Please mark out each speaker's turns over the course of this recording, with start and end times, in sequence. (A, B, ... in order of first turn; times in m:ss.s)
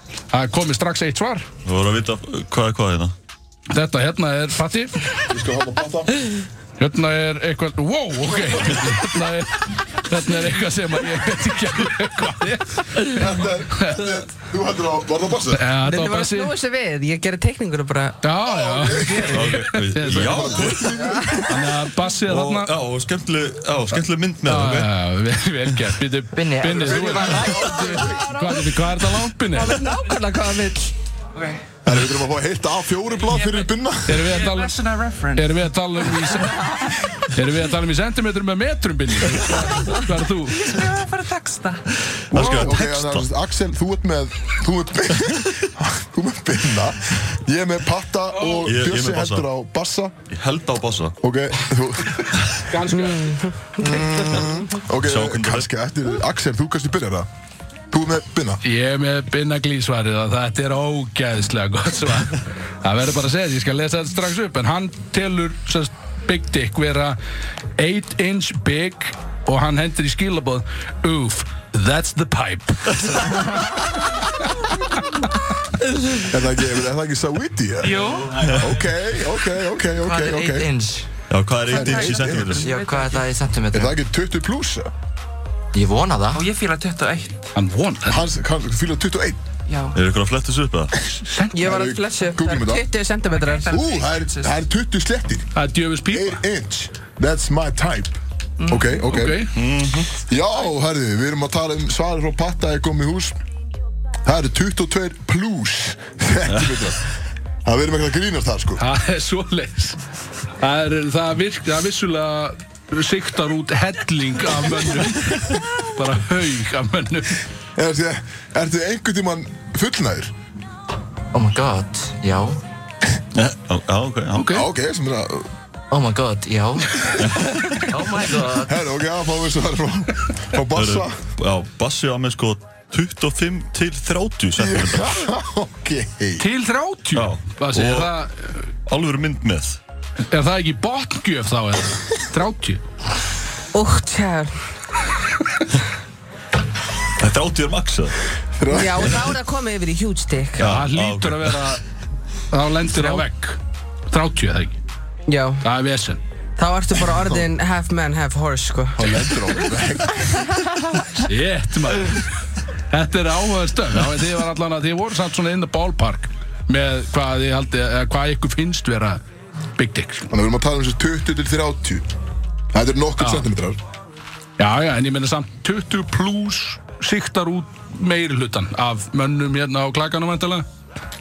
0:00.3-0:01.4 A
0:01.6-0:03.1 B
0:03.7-0:04.9 A
0:05.3-0:06.3 C
0:06.8-0:14.1 A
0:08.6-0:09.0 B
0:13.0-0:15.7 C
0:15.5-0:16.5 A
0:15.8-0:18.3 D
0:18.2-0:20.6 A
0:18.4-0:21.5 C
0:18.9-0:19.4 D
0:19.3-0:21.1 B
0:20.7-0:21.4 D
0:21.4-0:22.7 A
0:22.2-0:24.9 B
0:23.9-0:29.8 A
0:26.3-0:27.2 E
0:26.7-0:28.3 C
0:27.0-0:28.8 D
0:29.5-0:30.9 D
0:31.3-0:31.6 F
0:31.8-0:34.4 C
0:33.2-0:35.6 F
0:34.0-0:34.7 A
0:35.3-0:40.6 A
0:40.5-0:41.9 F
0:42.3-0:43.3 B
0:42.3-0:50.2 C
0:48.3-0:48.7 A
0:48.6-0:49.5 B
0:50.3-0:51.1 B
0:51.2-0:52.5 C
0:52.6-0:53.4 A
0:52.9-0:54.2 D
0:53.8-0:57.3 C
0:55.0-0:55.7 B
0:57.9-0:58.6 C
0:58.6-1:07.2 A
1:07.8-1:13.4 A
1:16.2-1:17.9 C
1:17.8-1:18.5 F
1:18.4-1:18.7 B
1:18.5-1:20.7 C
1:20.0-1:21.1 E
1:21.3-1:22.7 B
1:21.6-1:23.3 F
1:21.7-1:22.5 C
1:22.6-1:24.0 E
1:23.7-1:24.9 C
1:25.7-1:26.4 E
1:26.3-1:27.5 F
1:27.5-1:28.2 A
1:28.1-1:29.4 C
1:29.7-1:30.0 F
1:29.9-1:30.9 B
1:31.2-1:31.6 A
1:31.5-1:33.7 D
1:31.6-1:32.9 C
1:33.3-1:34.6 F
1:33.7-1:35.5 C
1:35.5-1:36.4 A
1:36.1-1:39.4 C
1:38.6-1:39.0 F
1:39.1-1:39.5 A
1:39.2-1:40.1 B
1:40.2-1:43.3 C
1:44.2-1:47.0 C
1:47.6-1:48.8 C
1:48.8-1:50.0 A
1:50.6-1:57.4 A
1:57.8-2:00.3 C
2:01.3-2:02.6 E
2:03.3-2:04.5 B
2:04.3-2:04.7 A
2:04.5-2:05.5 C
2:05.9-2:07.2 E
2:07.2-2:07.5 B
2:07.9-2:08.7 E
2:08.6-2:11.2 C
2:10.7-2:15.2 B
2:14.6-2:16.4 C
2:16.4-2:18.6 A
2:17.1-2:18.2 B
2:18.9-2:19.8 B
2:20.3-2:22.8 A
2:23.7-2:24.5 D
2:27.2-2:28.2 B
2:28.6-2:29.3 C
2:28.7-2:30.7 D
2:30.6-2:31.6 B
2:30.6-2:31.8 A
2:32.5-2:33.6 A
2:34.1-2:34.8 A
2:35.3-2:35.6 D
2:35.6-2:36.2 A
2:36.6-2:39.0 D
2:37.1-2:37.5 C
2:39.0-2:40.5 C
2:39.0-2:39.2 A
2:41.2-2:42.2 A
2:42.9-2:49.2 A
2:49.8-2:50.3 A
2:50.3-2:52.0 C
2:52.7-2:53.8 C
2:53.2-2:53.5 A
2:54.6-3:00.6 A